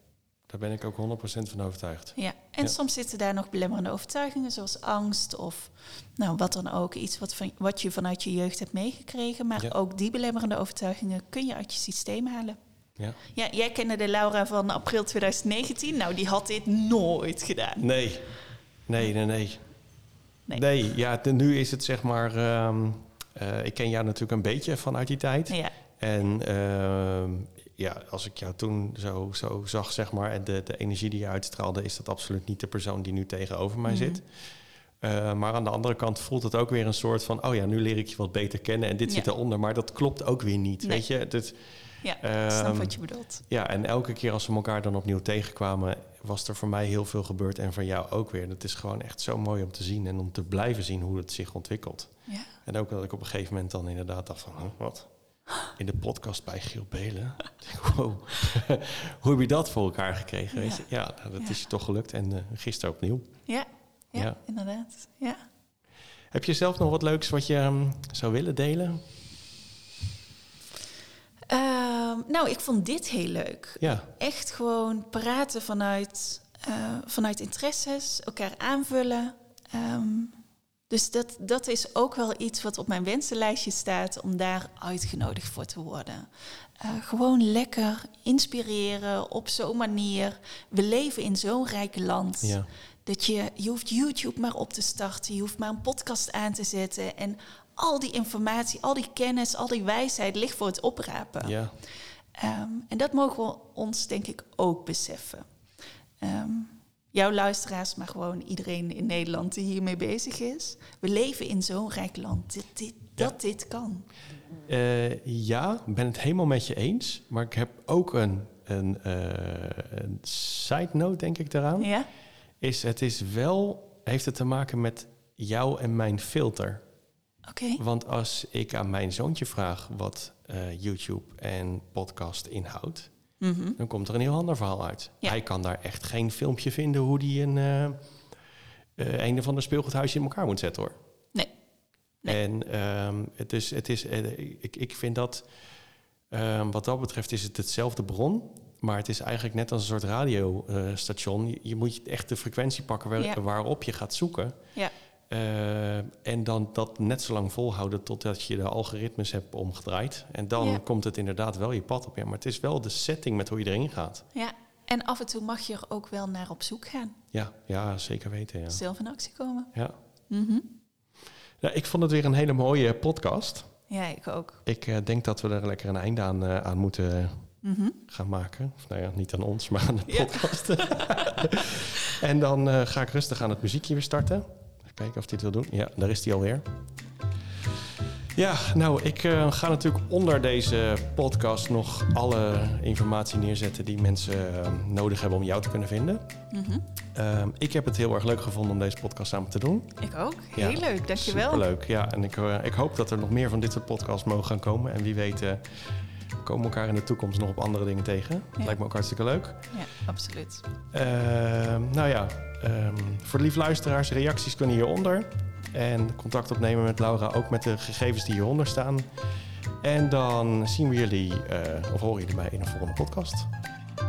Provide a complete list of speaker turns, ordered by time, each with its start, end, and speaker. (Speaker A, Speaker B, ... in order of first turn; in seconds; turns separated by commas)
Speaker A: 0.5-2.8, Speaker B: 2.2-12.6, Speaker B: 13.3-17.9, Speaker A: 17.8-19.6, Speaker A: 20.5-34.5, Speaker B: 33.9-34.2, Speaker A: 35.0-63.4, Speaker B: 42.0-43.4, Speaker B: 52.3-52.5, Speaker B: 60.5-60.9, Speaker B: 63.5-65.4, Speaker A: 66.3-69.0, Speaker B: 71.5-80.4, Speaker A: 73.8-74.1, Speaker B: 80.9-86.3, Speaker B: 86.8-101.6, Speaker A: 92.4-92.7, Speaker A: 101.4-101.8, Speaker B: 102.4-105.5, Speaker B: 106.2-114.1, Speaker A: 114.7-121.9, Speaker B: 121.8-122.1, Speaker A: 122.6-126.8, Speaker B: 127.5-127.8, Speaker A: 127.8-133.1, Speaker B: 133.4-133.8, Speaker A: 133.8-138.0, Speaker A: 139.0-141.0, Speaker A: 142.3-145.5, Speaker A: 146.3-154.6, Speaker A: 155.3-164.3, Speaker B: 160.6-160.8, Speaker B: 164.3-167.2, Speaker A: 167.3-168.8, Speaker B: 168.7-169.7, Speaker B: 170.3-170.7, Speaker A: 171.6-173.7, Speaker B: 173.9-174.6, Speaker A: 174.7-177.5, Speaker B: 177.6-178.0, Speaker A: 178.1-186.7, Speaker B: 180.1-181.5, Speaker A: 188.3-196.3, Speaker B: 196.5-196.8, Speaker A: 197.2-200.0, Speaker B: 200.0-201.7, Speaker A: 200.6-209.7, Speaker B: 209.7-210.7, Speaker A: 210.9-219.1, Speaker A: 219.8-223.5